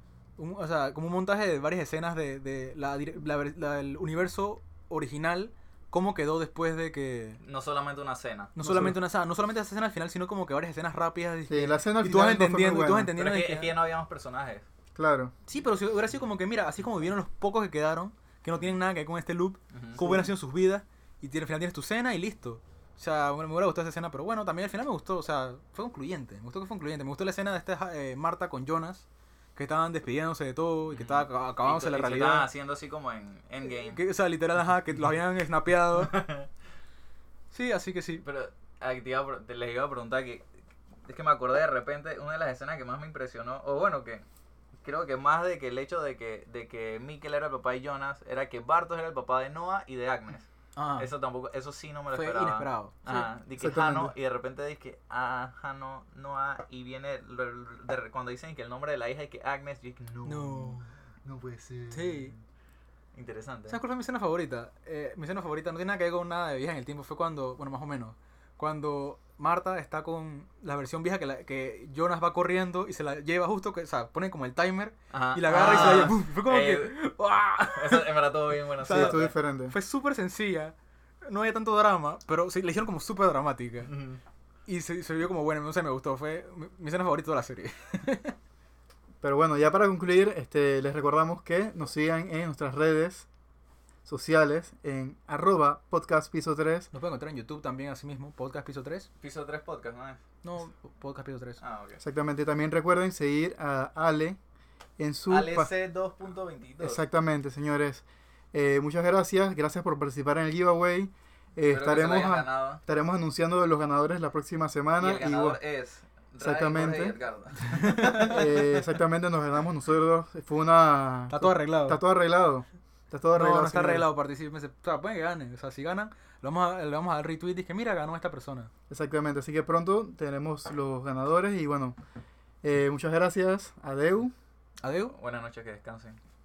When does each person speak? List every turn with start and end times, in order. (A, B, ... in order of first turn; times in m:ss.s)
0:00.4-0:07.4 A
0:07.4-0:08.5 B
0:08.6-0:13.8 A
0:08.6-0:09.0 C
0:11.5-0:13.1 C
0:13.2-0:14.7 B
0:15.0-0:15.3 C
0:15.5-0:32.5 A
0:19.7-0:20.3 B
0:30.9-0:34.0 B
0:33.6-0:36.2 A
0:36.0-0:36.5 B
0:37.5-0:38.2 A
0:38.2-0:40.5 B
0:41.1-0:44.2 B
0:44.8-1:02.4 B
0:50.8-0:51.1 A
0:52.1-0:53.3 A
0:53.6-0:54.1 C
1:00.3-1:00.9 A
1:01.9-1:02.3 A
1:03.1-1:03.8 B
1:03.7-1:18.1 A
1:15.1-1:17.0 B
1:17.7-1:19.4 B
1:18.8-1:20.7 A
1:18.9-1:19.8 C
1:21.3-1:23.9 A
1:23.8-1:24.2 B
1:24.7-1:28.4 A
1:29.2-1:33.3 C
1:34.1-1:36.9 C
1:36.9-1:39.1 A
1:39.2-1:40.2 B
1:40.4-1:41.6 A
1:41.6-1:42.0 B
1:42.0-1:44.4 C
1:45.0-1:45.7 C
1:45.3-1:47.0 B
1:46.8-1:55.6 C
1:51.7-1:52.8 B
1:55.0-1:58.4 B
1:56.4-1:57.2 C
1:57.8-1:58.4 A
1:58.0-2:04.1 C
2:01.3-2:02.0 A
2:03.4-2:08.7 A
2:08.9-2:12.0 C
2:12.6-2:14.3 C
2:14.8-2:15.1 A
2:15.1-2:16.2 B